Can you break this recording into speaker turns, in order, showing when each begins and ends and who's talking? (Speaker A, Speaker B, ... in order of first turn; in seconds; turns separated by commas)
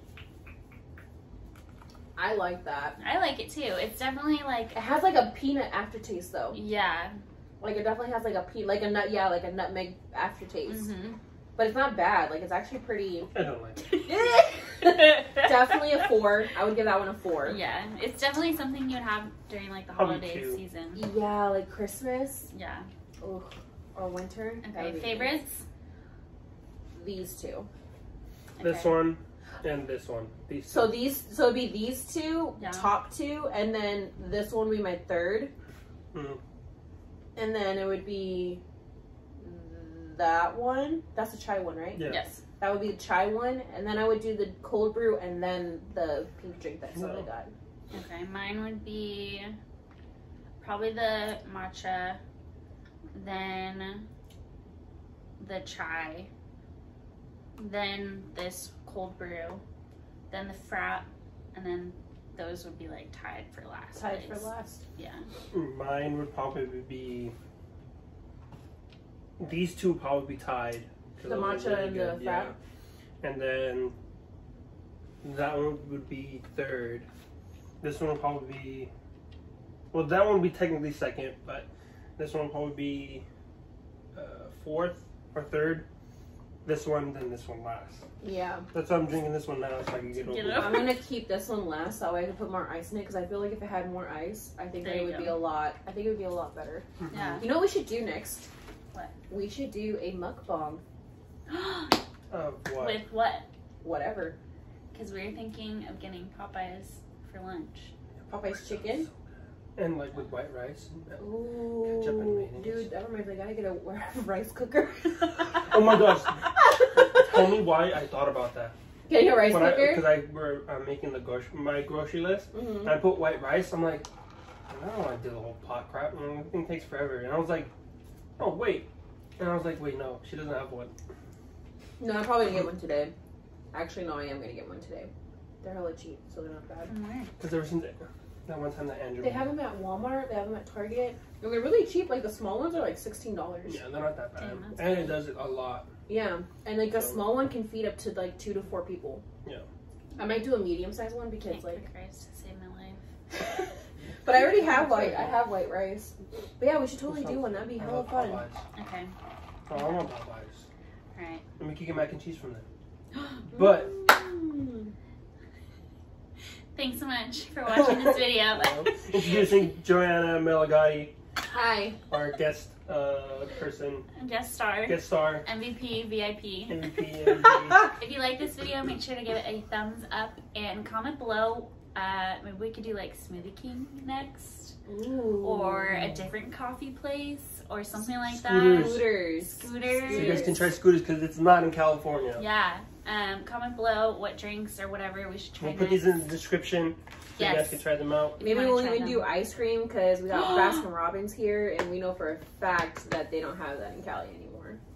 Speaker A: 2.1-3.0, Speaker B: 3.0-4.8, Speaker A: 4.7-6.6, Speaker B: 6.5-7.2, Speaker A: 7.6-10.9, Speaker B: 10.7-11.2, Speaker A: 11.6-13.3, Speaker C: 13.3-14.0, Speaker A: 13.9-17.6, Speaker B: 17.4-21.1, Speaker C: 19.9-20.6, Speaker A: 20.9-22.5, Speaker B: 22.5-22.9, Speaker A: 23.2-25.4, Speaker B: 24.6-25.6, Speaker A: 26.9-27.7, Speaker B: 28.6-29.1, Speaker C: 28.6-30.9, Speaker A: 30.7-35.5, Speaker B: 32.6-32.9, Speaker C: 36.1-36.4, Speaker A: 37.4-38.6, Speaker A: 39.4-47.5, Speaker C: 41.9-42.2, Speaker B: 42.0-42.4, Speaker C: 46.9-47.3, Speaker B: 47.9-49.5, Speaker B: 50.6-52.2, Speaker B: 53.1-54.0, Speaker B: 55.4-56.3, Speaker B: 57.6-59.6, Speaker B: 60.3-65.2, Speaker A: 63.9-64.8, Speaker C: 65.5-67.3, Speaker C: 69.4-72.5, Speaker A: 71.2-72.5, Speaker C: 73.2-73.9, Speaker C: 75.2-77.1, Speaker C: 77.8-78.9, Speaker C: 79.9-83.2, Speaker C: 84.1-85.8, Speaker C: 86.6-88.0, Speaker A: 88.2-88.7, Speaker C: 88.7-90.9, Speaker B: 90.1-91.0, Speaker A: 90.5-96.9, Speaker B: 94.8-95.4, Speaker C: 97.0-97.4, Speaker B: 97.1-97.6, Speaker A: 97.4-98.5, Speaker A: 99.3-100.8, Speaker B: 101.5-102.0, Speaker C: 102.3-103.0, Speaker B: 102.7-103.5, Speaker A: 103.8-104.3, Speaker B: 104.9-107.9, Speaker C: 108.2-109.1, Speaker A: 108.3-109.1, Speaker C: 109.7-112.9, Speaker A: 111.2-117.6, Speaker C: 115.6-118.7, Speaker A: 119.1-120.2, Speaker C: 119.4-124.1, Speaker A: 122.5-123.0, Speaker C: 124.7-127.7, Speaker C: 128.4-130.9, Speaker A: 132.0-133.1, Speaker A: 133.7-135.1, Speaker A: 135.6-136.9, Speaker B: 136.9-137.3, Speaker C: 137.4-139.5, Speaker A: 139.2-143.8, Speaker C: 143.7-145.9, Speaker B: 144.3-145.2, Speaker A: 146.1-149.2, Speaker C: 146.8-147.3, Speaker A: 150.2-151.8, Speaker B: 151.4-153.0, Speaker A: 154.2-158.4, Speaker C: 154.4-155.4, Speaker C: 157.1-158.6, Speaker B: 158.7-159.1, Speaker C: 159.7-160.7, Speaker B: 159.7-160.1, Speaker B: 161.1-161.4, Speaker C: 161.6-162.7, Speaker A: 163.4-164.9, Speaker C: 163.5-164.0, Speaker B: 166.7-169.5, Speaker C: 167.7-171.1, Speaker A: 171.5-172.0, Speaker C: 172.1-174.1, Speaker B: 174.1-176.8, Speaker C: 174.8-175.4, Speaker C: 176.7-177.9, Speaker B: 177.8-184.7, Speaker A: 184.8-186.2, Speaker B: 185.4-190.6, Speaker C: 188.3-189.1, Speaker A: 188.6-190.6, Speaker C: 190.1-192.4, Speaker B: 192.3-196.3, Speaker C: 195.6-198.4, Speaker B: 197.4-197.8, Speaker B: 198.4-199.3, Speaker A: 198.4-204.8, Speaker B: 200.3-200.8